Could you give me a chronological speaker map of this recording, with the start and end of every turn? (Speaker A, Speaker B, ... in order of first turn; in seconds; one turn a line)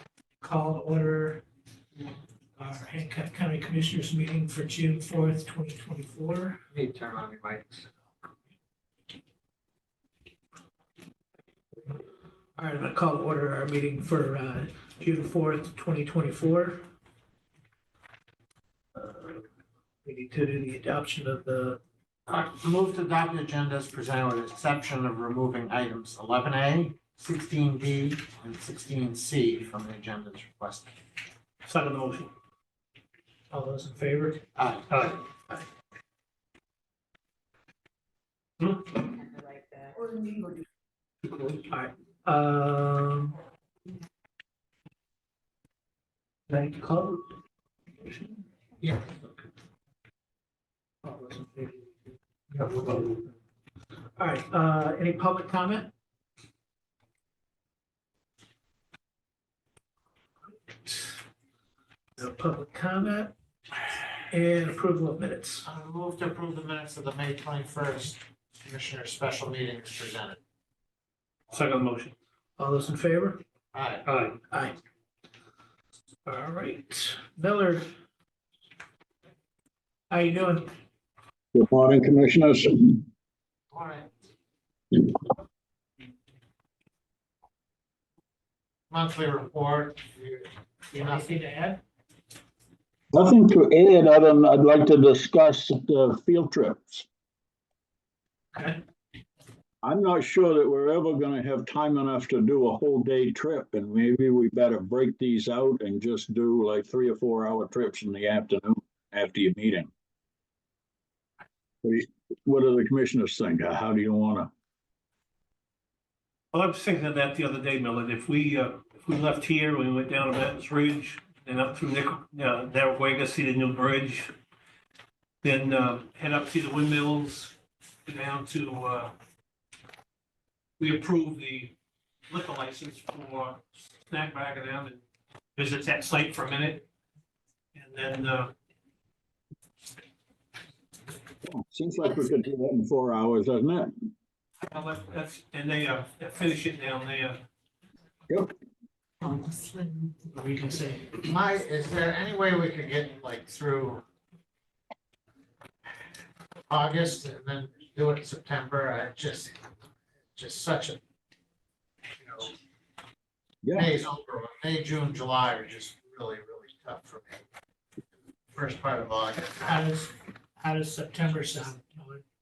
Speaker A: 0.4-1.4
Speaker A: 2.6-6.6
Speaker B: 6.7-7.8
Speaker A: 12.6-16.8
Speaker A: 18.9-19.4
Speaker A: 20.0-21.8
Speaker B: 22.3-30.9
Speaker C: 31.7-32.3
Speaker A: 33.5-34.4
Speaker B: 34.5-35.1
Speaker C: 34.9-35.2
Speaker C: 38.6-39.0
Speaker A: 41.6-43.4
Speaker A: 46.5-47.3
Speaker A: 48.0-48.4
Speaker A: 51.0-52.0
Speaker A: 52.5-53.2
Speaker A: 54.2-55.9
Speaker A: 60.9-61.2
Speaker A: 62.2-63.3
Speaker A: 64.3-65.6
Speaker B: 65.6-70.4
Speaker C: 71.5-72.1
Speaker A: 72.6-73.4
Speaker B: 73.7-74.1
Speaker C: 74.0-74.4
Speaker A: 74.5-74.8
Speaker A: 76.2-77.9
Speaker A: 80.1-80.7
Speaker D: 81.5-83.0
Speaker B: 83.7-84.1
Speaker B: 88.9-91.3
Speaker A: 90.9-91.8
Speaker D: 93.1-97.0
Speaker A: 98.5-98.8
Speaker D: 99.8-109.9
Speaker D: 111.8-114.5
Speaker C: 116.5-124.3
Speaker C: 125.4-129.1
Speaker C: 130.8-131.8
Speaker C: 132.3-135.0
Speaker C: 135.6-136.8
Speaker C: 137.8-138.5
Speaker D: 141.4-143.9
Speaker C: 144.7-147.4
Speaker B: 149.2-150.2
Speaker A: 150.3-151.2
Speaker B: 151.2-154.0
Speaker B: 156.7-159.6
Speaker B: 160.3-161.0
Speaker B: 162.2-162.5
Speaker D: 163.6-163.9
Speaker B: 163.7-167.4
Speaker B: 168.5-169.8
Speaker A: 169.6-172.2